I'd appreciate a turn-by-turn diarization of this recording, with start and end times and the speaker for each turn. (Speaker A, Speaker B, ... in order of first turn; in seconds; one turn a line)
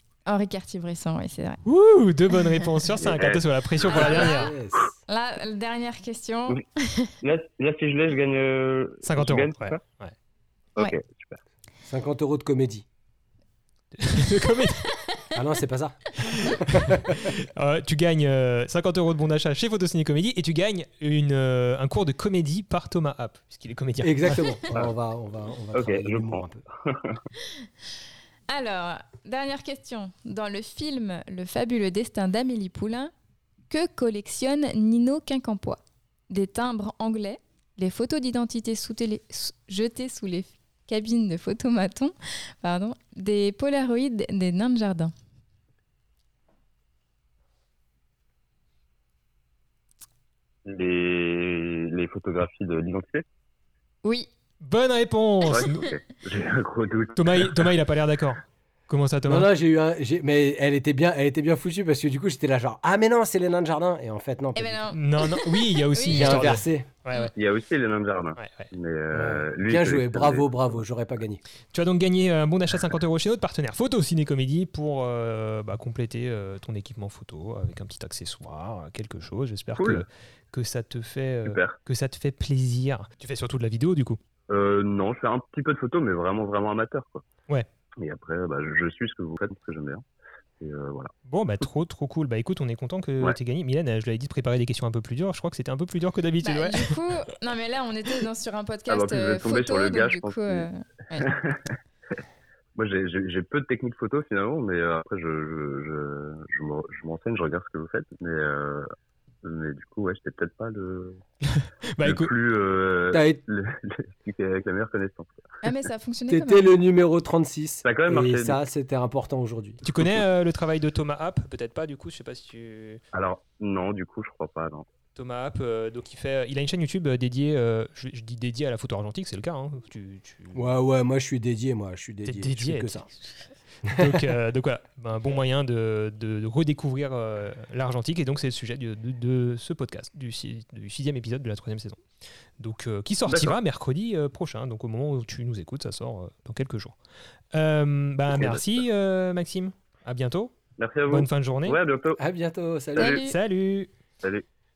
Speaker A: 0.2-1.6
Speaker B: 1.6-4.5
Speaker C: 3.0-4.9
Speaker D: 3.9-4.9
Speaker A: 3.9-4.5
Speaker A: 5.1-7.1
Speaker C: 7.2-9.8
Speaker B: 9.0-10.1
Speaker C: 10.8-11.4
Speaker D: 11.9-12.8
Speaker B: 14.0-14.9
Speaker D: 15.3-17.1
Speaker B: 16.2-24.6
Speaker D: 24.0-26.6
Speaker C: 25.7-27.2
Speaker A: 28.5-33.1
Speaker A: 33.7-45.1
Speaker C: 50.6-53.2
Speaker A: 54.0-54.3
Speaker B: 54.6-55.9
Speaker C: 55.5-57.7
Speaker B: 57.1-59.5
Speaker D: 59.2-64.8
Speaker A: 64.5-66.5
Speaker B: 64.9-67.3
Speaker D: 66.1-66.9
Speaker C: 67.3-70.7
Speaker B: 68.4-68.7
Speaker D: 69.1-71.4
Speaker B: 71.7-84.2
Speaker C: 79.8-80.0
Speaker C: 81.4-81.8
Speaker C: 84.5-87.2
Speaker C: 88.0-90.0
Speaker C: 90.6-91.1
Speaker B: 91.2-96.9
Speaker A: 96.4-101.3
Speaker C: 98.9-100.7
Speaker C: 101.4-101.7
Speaker C: 102.8-108.8
Speaker C: 109.4-111.2
Speaker B: 111.5-112.3
Speaker C: 112.0-115.3
Speaker D: 113.1-113.4
Speaker A: 115.6-116.7
Speaker D: 116.3-119.8
Speaker C: 117.8-118.6
Speaker B: 119.8-123.0
Speaker C: 123.1-124.8
Speaker B: 125.1-130.7
Speaker D: 130.5-133.1
Speaker B: 132.2-142.0
Speaker D: 133.9-134.2
Speaker B: 142.6-146.9
Speaker C: 143.3-143.6
Speaker B: 147.5-150.5
Speaker C: 148.3-148.8
Speaker C: 150.8-152.2
Speaker B: 151.1-151.8
Speaker D: 152.2-153.2
Speaker A: 152.9-153.3
Speaker B: 153.0-153.9